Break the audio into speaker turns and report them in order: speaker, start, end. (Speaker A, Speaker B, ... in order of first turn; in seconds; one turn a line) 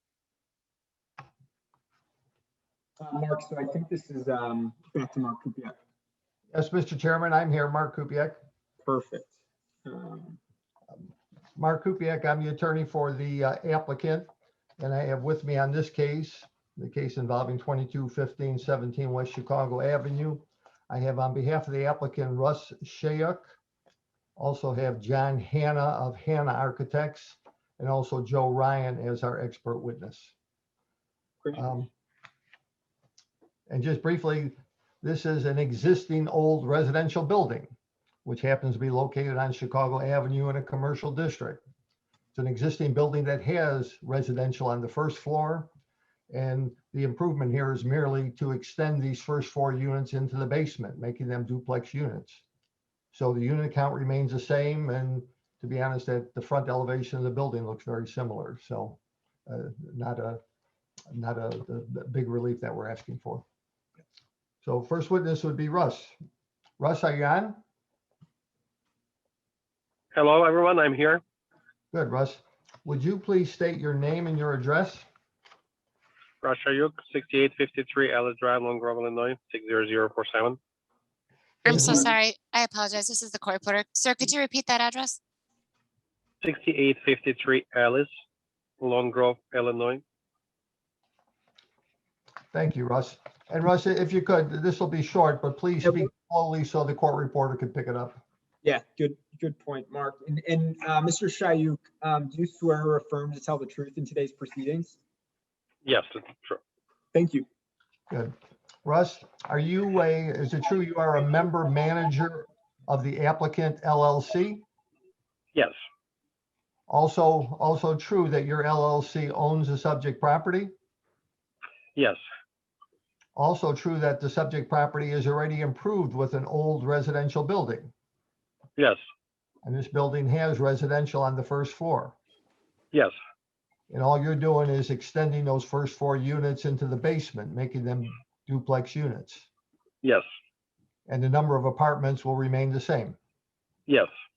Speaker A: 3.0-5.8
Speaker B: 6.5-8.4
Speaker A: 8.8-9.3
Speaker A: 9.8-10.4
Speaker B: 11.0-14.3
Speaker B: 14.8-23.6
Speaker B: 24.4-30.3
Speaker B: 31.6-31.9
Speaker B: 33.7-37.7
Speaker B: 38.2-41.6
Speaker B: 42.3-45.7
Speaker B: 46.3-52.4
Speaker B: 53.1-60.4
Speaker B: 61.1-63.4
Speaker B: 64.6-66.1
Speaker B: 66.8-67.6
Speaker C: 70.1-71.2
Speaker B: 71.9-75.0
Speaker C: 76.4-80.6
Speaker B: 81.7-82.1
Speaker D: 81.7-85.1
Speaker C: 86.4-88.1
Speaker C: 88.8-90.0
Speaker B: 92.5-98.2
Speaker A: 95.8-96.1
Speaker A: 98.6-105.0
Speaker C: 105.8-106.6
Speaker A: 107.1-107.5
Speaker B: 108.8-114.6
Speaker B: 116.9-120.7
Speaker B: 123.3-127.9
Speaker B: 129.6-132.2
Speaker B: 133.9-139.5
Speaker B: 141.1-143.2